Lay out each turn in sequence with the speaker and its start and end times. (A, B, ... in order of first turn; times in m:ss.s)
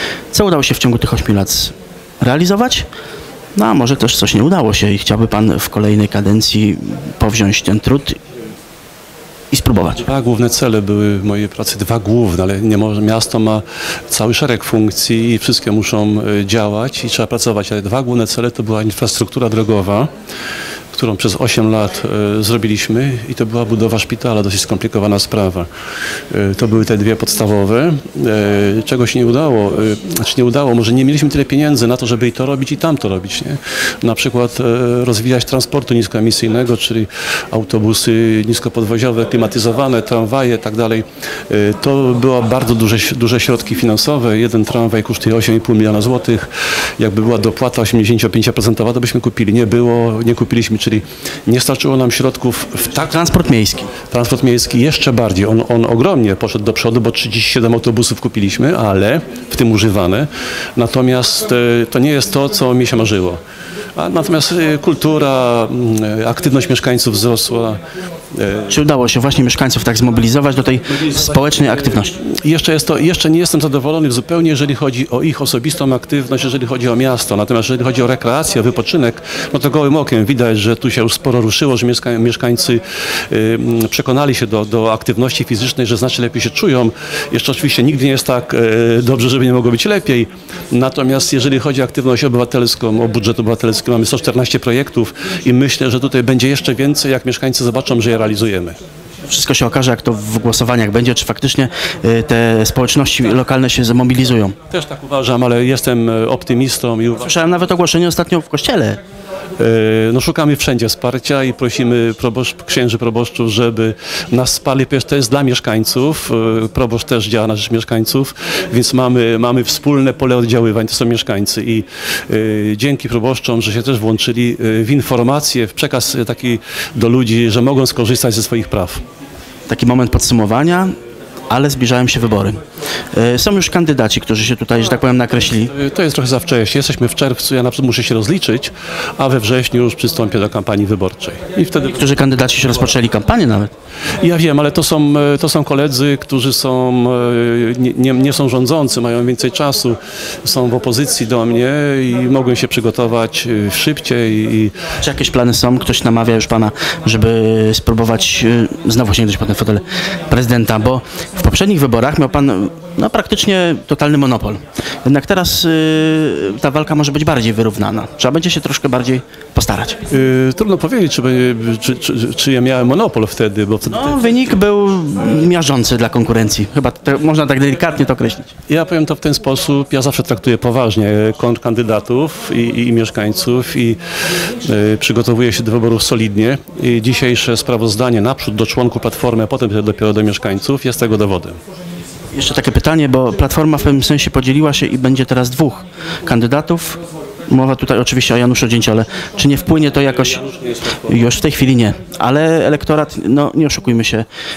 0:00.3-0:02.9 A
0:03.6-0:08.2 A
0:09.5-0:10.0 A
0:10.0-0:20.1 B
0:20.9-0:25.7 B
0:26.3-0:53.1 B
0:53.0-0:53.9 A
0:54.1-1:03.4 B
1:04.0-1:07.8 B
1:08.3-1:08.8 B
1:08.7-1:12.2 A
1:12.2-1:38.8 B
1:39.3-1:44.6 A
1:44.7-1:47.3 B
1:47.2-1:49.0 A
1:49.6-2:09.0 B
2:09.7-2:10.9 A
2:11.5-2:12.6 A
2:13.1-2:15.7 A
2:15.7-2:22.0 B
2:21.8-2:23.7 A
2:24.2-2:34.7 B
2:35.0-2:50.0 A
2:50.1-2:54.2 B
2:53.8-2:58.5 A
2:58.7-3:04.0 B
3:04.6-3:11.6 B
3:12.3-3:24.2 A